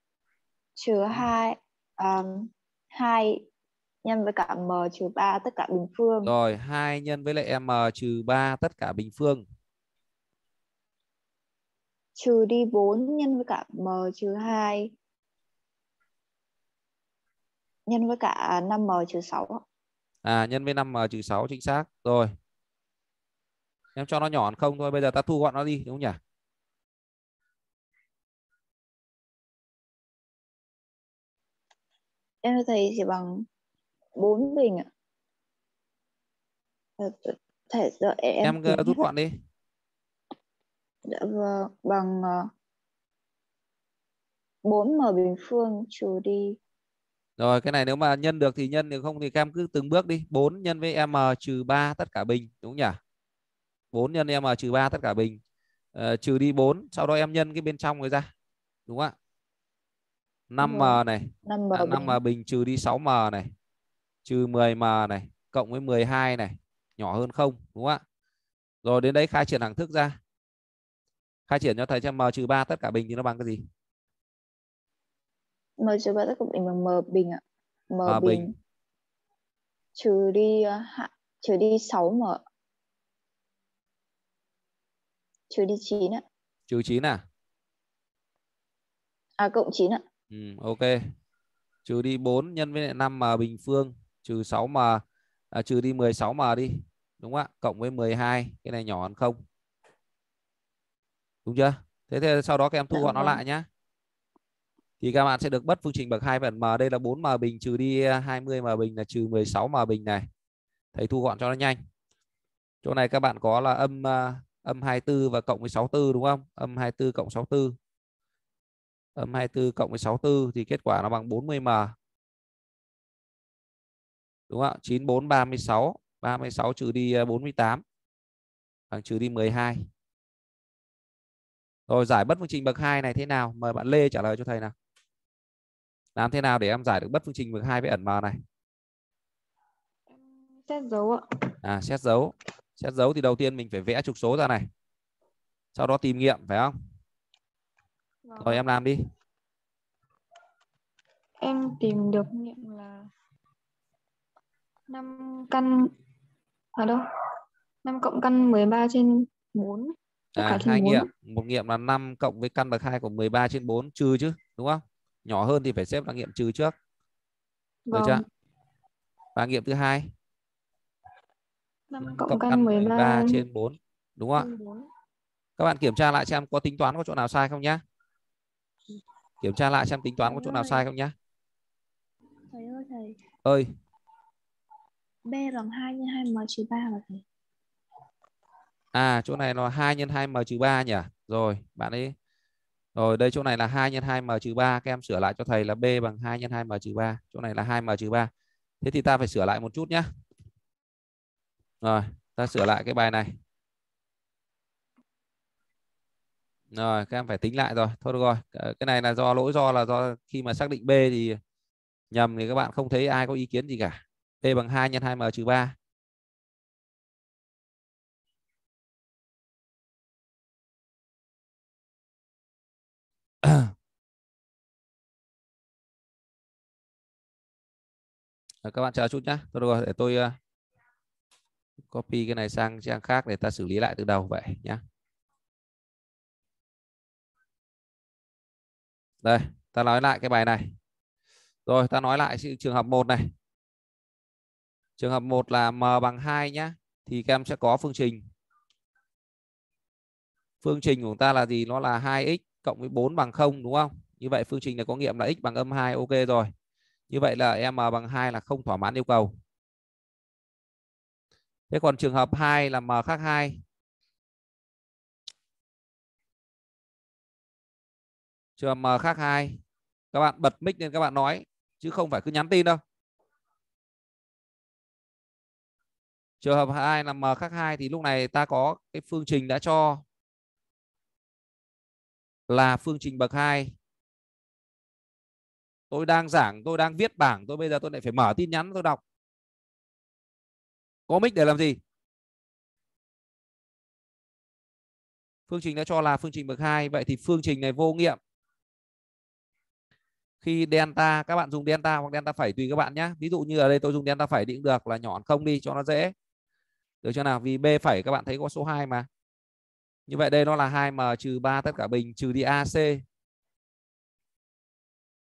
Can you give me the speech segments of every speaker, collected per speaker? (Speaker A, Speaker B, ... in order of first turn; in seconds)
Speaker A: 0.8-3.5, 4.0-6.3, 12.2-14.9, 17.9-19.6, 32.4-33.5, 34.2-34.9, 37.0-39.0, 41.1-42.5, 44.6-46.6, 60.6-62.2, 75.8-78.5, 80.0-82.4, 85.5-86.2, 89.4-90.0, 103.0-103.4, 180.3-180.8, 182.5-183.2, 185.2-187.2
Speaker B: 6.2-9.4, 20.2-22.3, 23.9-26.2, 38.4-39.4, 47.4-53.0, 53.9-55.4, 55.9-58.3, 58.9-59.1, 60.5-63.5, 64.2-68.0, 68.8-70.2, 71.5-73.6, 78.0-78.5, 86.7-87.2, 90.3-91.0, 91.9-99.4, 101.4-103.7, 105.0-110.3, 110.9-111.8, 112.8-117.8, 119.2-121.9, 124.5-127.8, 128.9-129.9, 131.9-134.7, 136.2-138.4, 141.6-144.7, 145.8-146.8, 148.4-149.0, 160.4-166.8, 167.9-168.2, 169.4-170.1, 172.0-174.5, 175.6-177.8, 179.4-181.1, 188.9-192.1, 192.9-198.3, 198.8-200.1, 201.8-203.4, 206.7-211.4, 212.1-215.8, 223.4-223.7, 228.6-230.4, 231.9-234.8, 239.2-240.7, 241.7-243.3, 245.0-248.2, 250.6-256.5, 257.1-259.4, 261.7-263.6, 268.6-269.6, 270.1-272.8, 276.4-280.0, 282.5-283.8, 285.9-289.0, 291.1-291.8, 295.5-298.2, 300.4-306.1, 307.0-309.1, 310.1-313.0
Speaker C: 140.1-141.2, 148.3-148.7, 151.4-153.1, 154.9-155.9, 156.8-157.0, 157.8-161.1, 167.9-168.2, 171.9-173.4, 174.4-174.9